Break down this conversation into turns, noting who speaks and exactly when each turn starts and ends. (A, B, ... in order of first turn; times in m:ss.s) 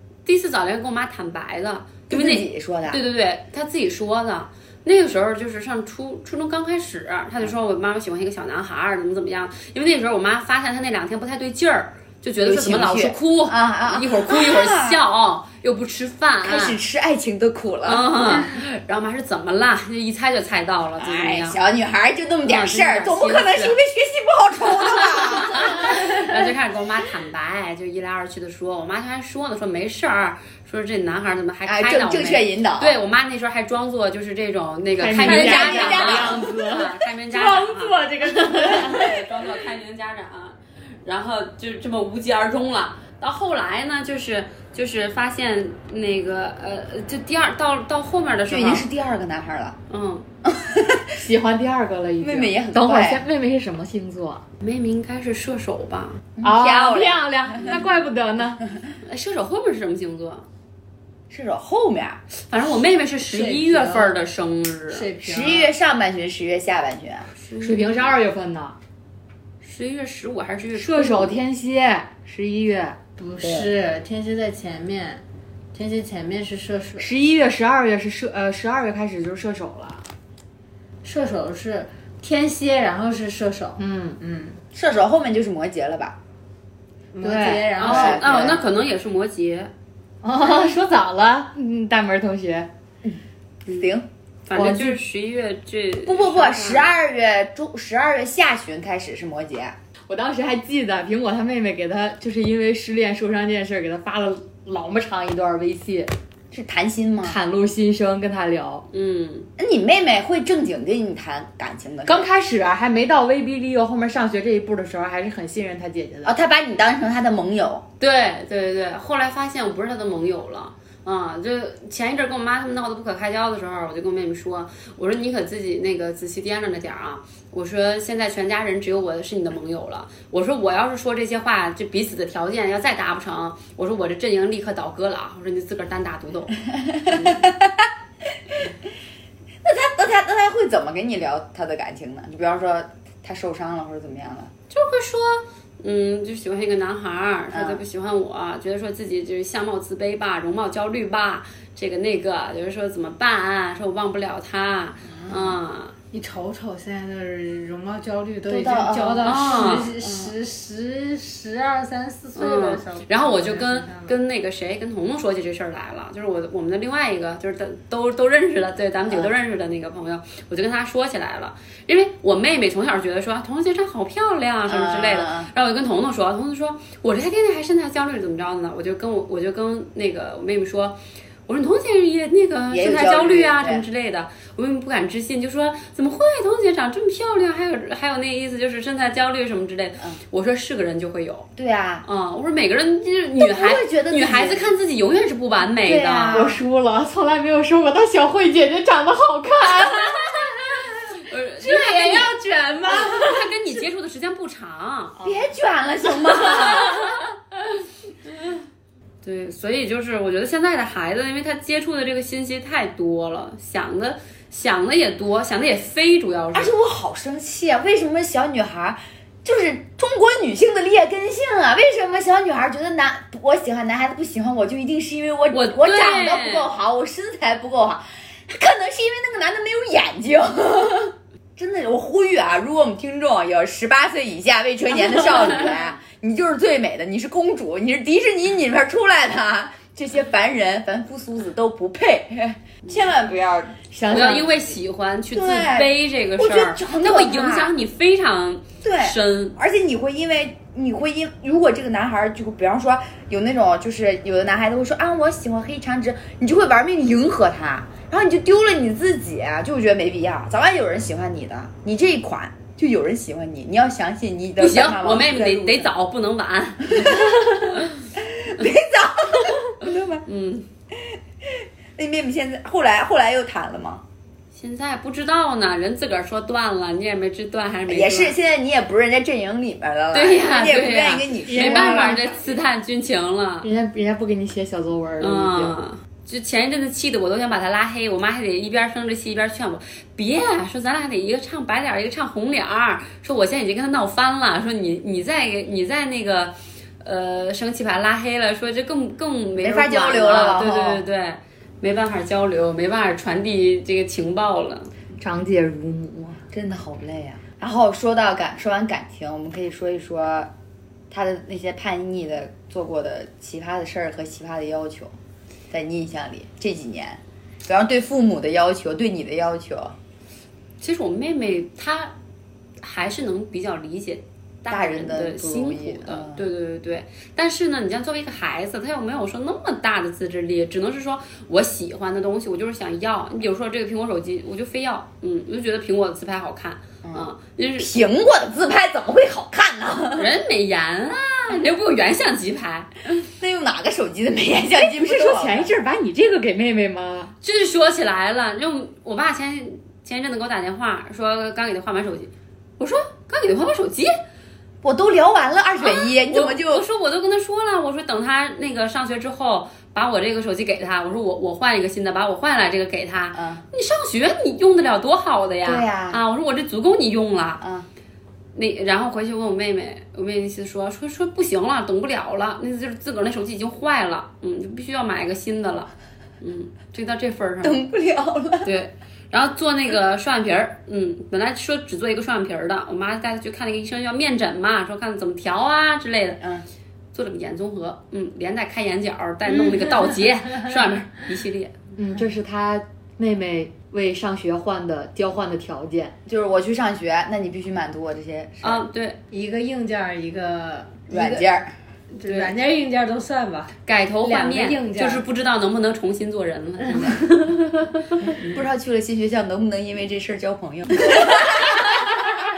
0:00.2-0:16.8 A
0:02.1-0:03.0 B
0:12.4-0:15.0 B
0:16.4-0:18.6 B
0:17.8-0:21.6 A
0:21.0-0:26.0 B
0:22.4-0:23.8 A
0:24.9-0:48.9 A
0:31.6-0:33.0 B
0:35.0-0:39.2 C
0:35.1-0:36.5 B
0:48.5-0:49.8 B
0:49.9-0:50.3 A
0:50.4-0:51.2 B
0:51.2-0:54.4 C
0:52.2-0:53.2 B
0:54.6-0:56.2 A
0:56.4-0:57.7 B
0:56.4-0:58.6 C
0:59.0-1:00.5 A
1:01.3-1:02.2 B
1:02.4-1:05.0 A
1:03.3-1:04.2 D
1:04.9-1:05.7 D
1:05.2-1:07.3 B
1:07.3-1:08.1 A
1:07.6-1:08.8 C
1:09.6-1:11.4 A
1:10.7-1:13.0 C
1:13.2-1:15.2 D
1:15.7-1:17.1 D
1:17.0-1:20.0 C
1:21.0-1:23.8 D
1:23.8-1:24.6 C
1:24.7-1:26.2 B
1:27.1-1:28.2 D
1:27.2-1:27.9 C
1:27.8-1:29.7 A
1:27.8-1:28.6 B
1:30.2-1:32.7 C
1:33.6-1:33.9 A
1:33.7-1:34.1 B
1:34.4-1:36.9 A
1:34.5-1:35.0 C
1:36.0-1:39.8 B
1:40.1-1:46.1 C
1:46.5-1:47.4 B
1:47.2-1:48.8 C
1:48.9-1:49.5 A
1:49.6-1:52.3 B
1:52.0-1:56.3 C
1:56.2-1:57.8 B
1:58.0-2:17.5 A
2:16.9-2:17.9 B
2:19.6-2:24.5 B
2:24.7-2:35.9 A
2:27.5-2:27.8 B
2:35.0-2:35.6 B
2:36.1-2:44.1 D
2:38.5-2:40.3 B
2:39.2-2:39.9 A
2:42.4-3:11.5 A
2:54.7-2:55.5 B
3:02.7-3:03.8 B
3:11.6-3:12.0 B
3:12.0-3:16.5 A
3:13.4-3:14.7 B
3:15.8-3:16.6 B
3:16.3-3:20.4 C
3:21.2-3:22.3 A
3:21.6-3:23.5 D
3:22.9-3:25.2 A
3:25.2-3:27.1 B
3:29.2-3:36.7 A
3:36.5-4:04.6 B
3:45.5-3:46.7 A
4:03.9-4:04.5 C
4:04.1-4:09.6 A
4:05.3-4:07.7 B
4:08.8-4:25.9 B
4:24.6-4:27.3 A
4:26.9-4:27.4 B
4:28.2-4:30.2 B
4:30.3-4:30.7 A
4:32.0-4:34.0 B
4:34.5-4:38.4 A
4:37.9-4:42.2 B
4:40.1-4:43.7 A
4:41.4-4:42.2 C
4:43.6-4:45.8 C
4:45.2-5:04.9 A
4:59.6-5:01.0 B
5:05.2-5:06.4 C
5:06.5-5:10.5 B
5:11.1-5:15.1 B
5:15.7-5:19.9 B
5:20.8-5:22.1 A
5:22.8-5:37.9 A
5:24.7-5:26.5 B
5:37.0-5:40.3 B
5:40.1-5:42.9 A
5:43.4-5:45.7 B
5:44.8-5:47.3 C
5:47.4-5:54.1 A
5:54.8-5:56.8 B
5:55.8-6:07.6 A
6:03.3-6:03.6 B
6:05.6-6:06.2 B
6:07.6-6:07.9 B
6:08.5-6:15.9 A
6:16.4-6:17.8 A
6:17.6-6:18.7 B
6:18.6-6:26.4 A
6:26.4-6:26.6 B
6:27.1-6:31.8 A
6:32.0-6:36.2 C
6:36.3-6:38.8 B
6:38.6-6:39.2 A
6:39.3-6:41.4 D
6:41.1-6:41.7 B
6:42.2-6:45.2 D
6:42.2-6:42.5 A
6:43.8-6:47.8 A
6:48.3-6:51.9 B